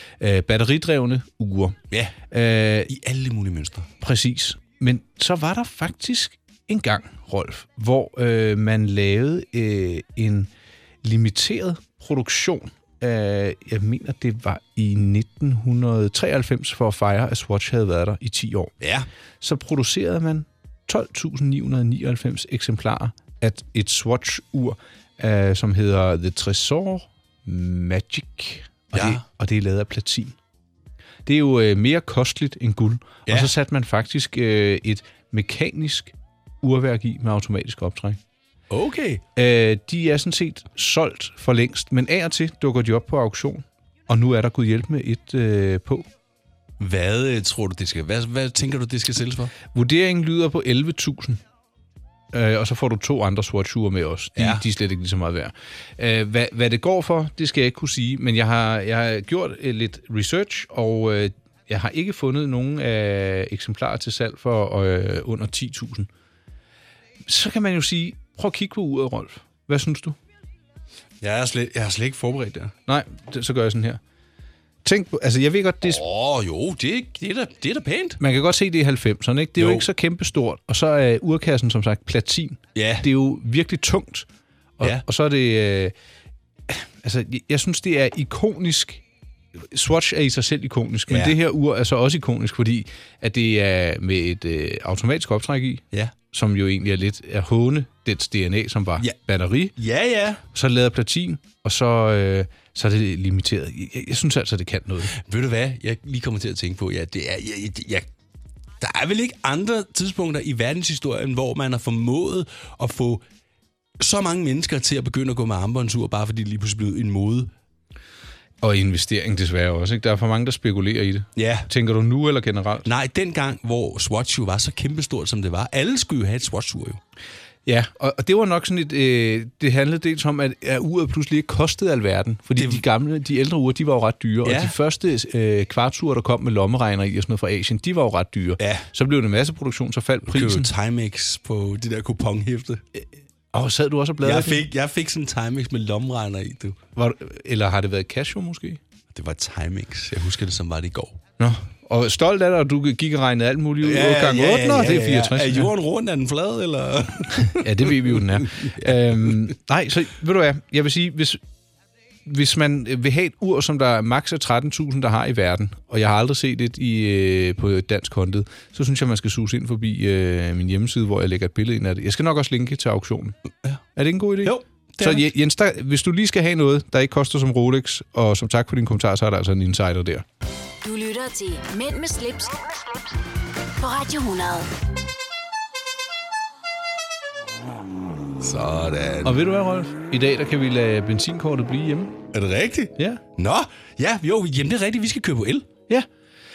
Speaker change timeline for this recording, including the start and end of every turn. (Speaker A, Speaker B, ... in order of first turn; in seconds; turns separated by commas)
Speaker A: 0.2-1.8, Speaker B: 1.9-2.2, Speaker A: 2.3-2.9, Speaker B: 2.9-3.9, Speaker A: 4.0-10.5, Speaker A: 11.0-18.7, Speaker B: 18.8-19.1, Speaker A: 19.4-30.4, Speaker B: 28.9-29.2, Speaker A: 31.3-38.2, Speaker B: 33.3-33.5, Speaker B: 38.7-39.2, Speaker A: 39.4-46.1, Speaker B: 46.8-49.5, Speaker A: 49.7-51.4, Speaker A: 52.3-66.1, Speaker B: 54.4-54.6, Speaker A: 67.2-70.2, Speaker B: 71.2-72.7, Speaker A: 72.9-74.0, Speaker A: 74.8-76.0, Speaker B: 75.8-78.2, Speaker A: 78.2-84.3, Speaker B: 79.6-79.9, Speaker B: 82.8-83.1, Speaker A: 84.8-85.9, Speaker A: 86.7-89.0, Speaker A: 89.5-99.8, Speaker B: 91.1-91.4, Speaker B: 99.8-100.4, Speaker A: 100.5-105.2, Speaker B: 105.1-108.1, Speaker B: 108.8-113.2, Speaker B: 114.0-117.5, Speaker A: 118.6-122.9, Speaker B: 121.4-121.7, Speaker B: 122.9-127.0, Speaker A: 127.7-140.7, Speaker B: 132.6-132.8, Speaker B: 134.4-134.7, Speaker B: 138.6-138.9, Speaker B: 140.3-142.8, Speaker A: 143.0-144.7, Speaker B: 144.2-146.8, Speaker A: 147.0-148.8, Speaker B: 149.1-151.2, Speaker A: 151.4-155.7, Speaker B: 153.8-159.5, Speaker A: 157.4-161.4, Speaker A: 162.3-173.4, Speaker A: 174.0-180.2, Speaker B: 174.4-175.3, Speaker C: 180.8-182.7, Speaker C: 183.8-184.7, Speaker B: 188.4-189.4, Speaker A: 189.2-192.2, Speaker B: 192.3-195.7, Speaker A: 193.0-193.2